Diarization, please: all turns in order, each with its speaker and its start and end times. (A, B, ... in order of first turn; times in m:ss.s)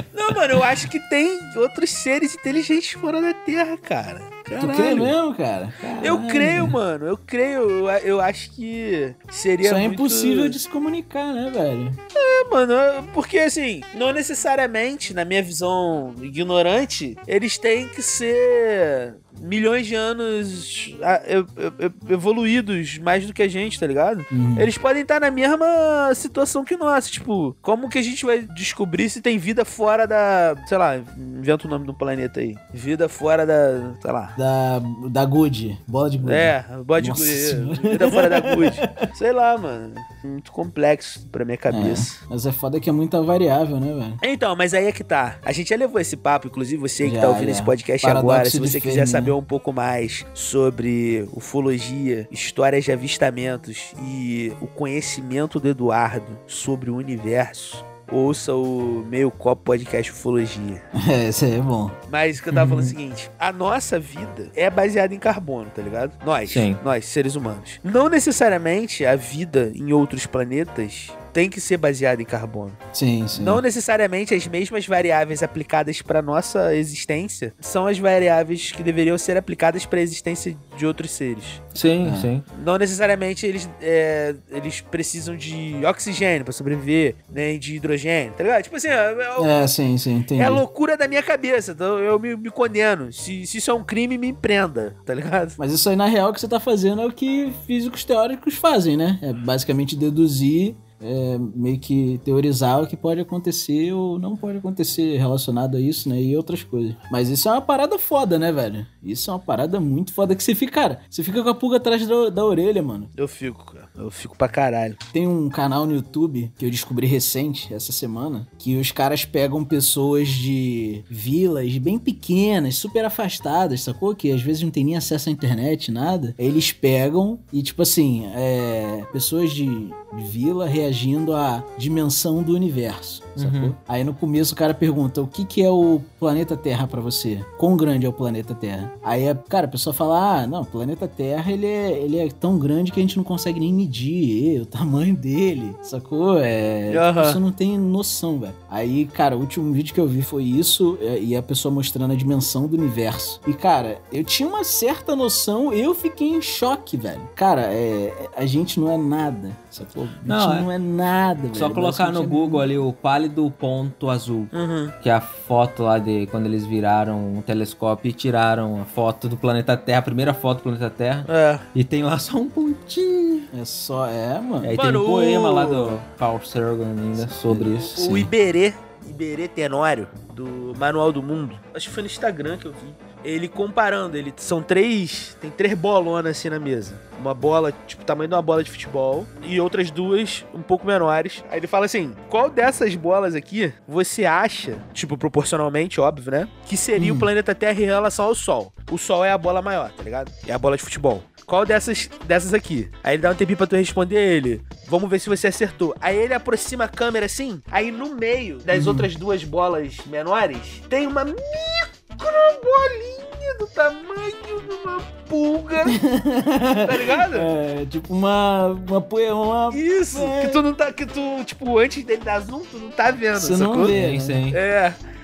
0:00.1-0:05.1 A
0:00.5-0:00.8 B
0:04.6-0:06.8 B
0:06.0-0:10.6 A
0:09.6-0:12.0 B
0:12.1-0:34.4 A
0:24.3-0:24.7 B
0:34.4-0:39.1 B
0:36.2-0:42.2 A
0:41.7-0:44.2 B
0:44.2-1:00.8 A
0:47.0-0:49.3 B
1:00.9-1:02.0 B
1:02.1-1:12.8 A
1:02.5-1:02.9 C
1:06.5-1:06.8 C
1:12.9-1:13.6 B
1:13.3-1:21.6 A
1:21.7-1:22.4 C
1:22.0-1:22.3 B
1:22.5-1:29.5 A
1:29.4-1:30.6 B
1:30.4-1:35.6 A
1:35.6-1:53.1 B
1:53.2-1:55.0 A
1:55.1-2:42.7 B
2:13.4-2:13.7 C
2:26.9-2:27.4 A
2:40.2-2:40.7 C
2:41.5-2:53.5 C
2:44.5-2:44.9 A
2:51.2-2:51.6 A
2:53.5-2:54.8 B
2:54.6-2:58.3 C
2:54.7-2:56.0 A
2:57.5-3:36.0 A
3:16.9-3:17.3 B
3:28.7-3:29.1 B
3:35.8-3:40.6 B
3:36.8-3:37.5 A
3:39.7-3:43.9 A
3:43.4-3:44.4 B
3:43.8-3:44.6 C
3:44.5-3:45.0 A